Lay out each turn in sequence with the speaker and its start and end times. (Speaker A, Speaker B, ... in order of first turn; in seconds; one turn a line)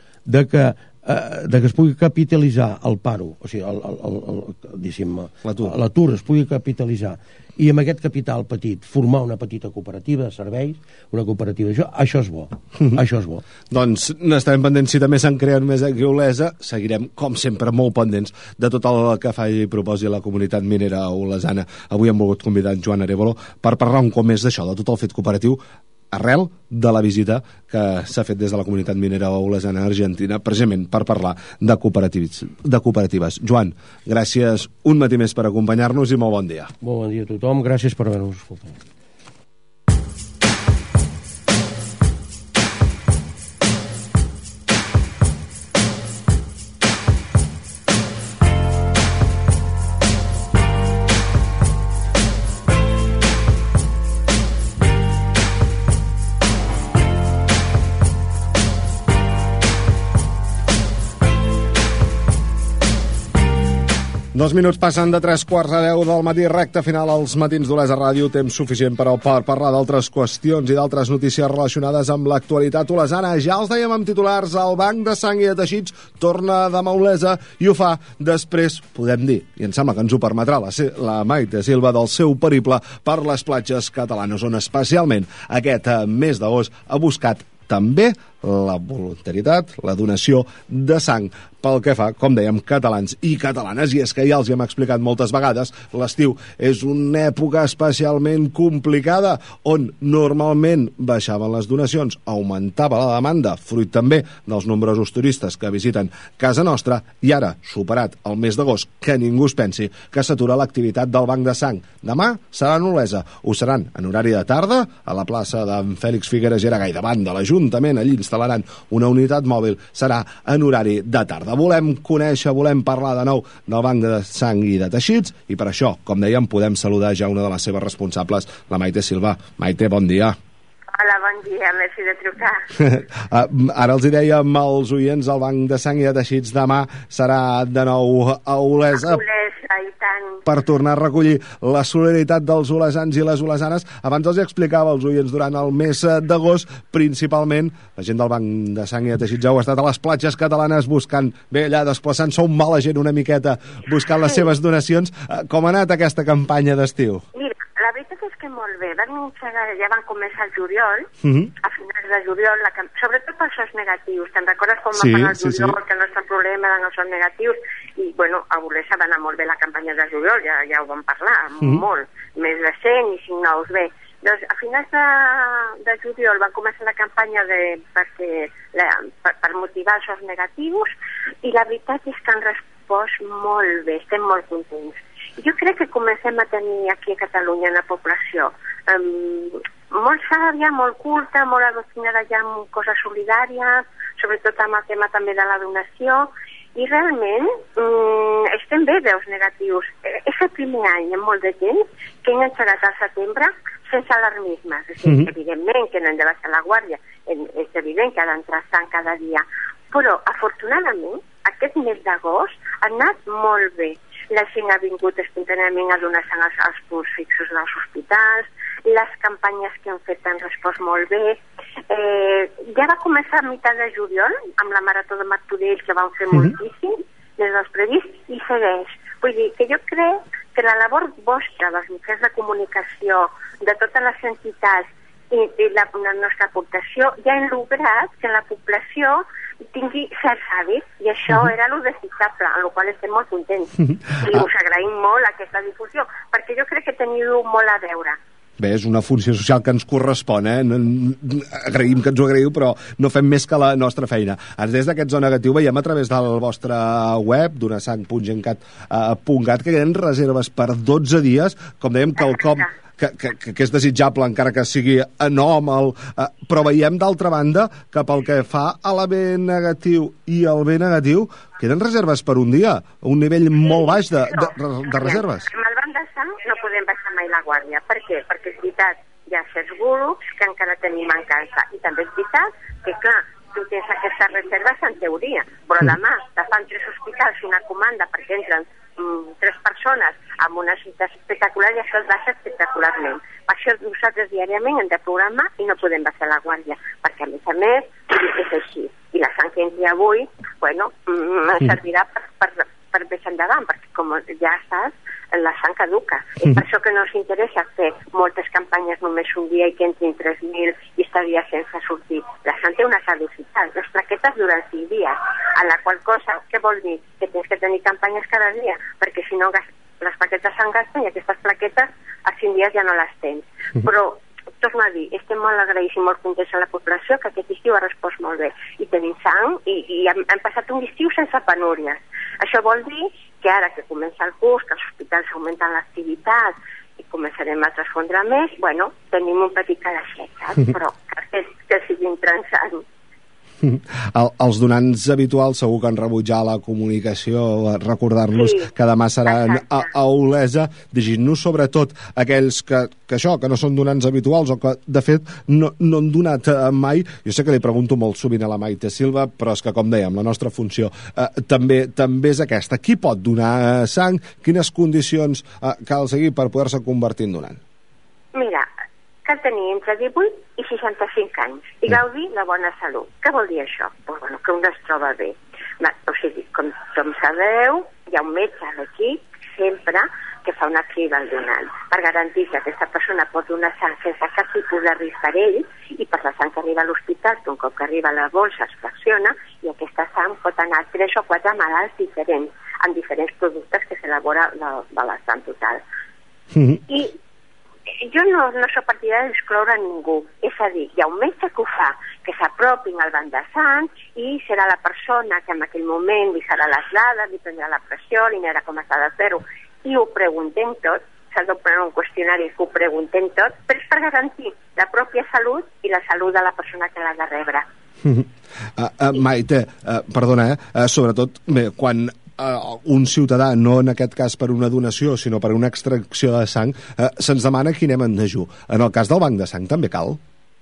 Speaker A: 0.3-13.4
Speaker B: 5.4-5.7
Speaker B: 13.7-25.6
Speaker B: 26.1-36.7
Speaker A: 36.8-38.8
Speaker B: 64.3-130.4
Speaker C: 130.9-132.6
Speaker B: 132.7-139.2
Speaker C: 138.9-140.4
Speaker B: 140.4-157.2
Speaker C: 157.3-180.9
Speaker B: 161.2-161.5
Speaker B: 164.9-165.8
Speaker C: 181.4-221.4
Speaker C: 221.9-248.2
Speaker B: 248.6-275.5
Speaker C: 273.7-342.8
Speaker B: 343.6-367.6
Speaker C: 348.3-348.7
Speaker C: 349.3-349.8
Speaker C: 368.3-368.7
Speaker C: 369.2-395.8
Speaker B: 396.5-396.8
Speaker C: 396.9-397.1
Speaker C: 398.0-417.6
Speaker B: 418.0-430.2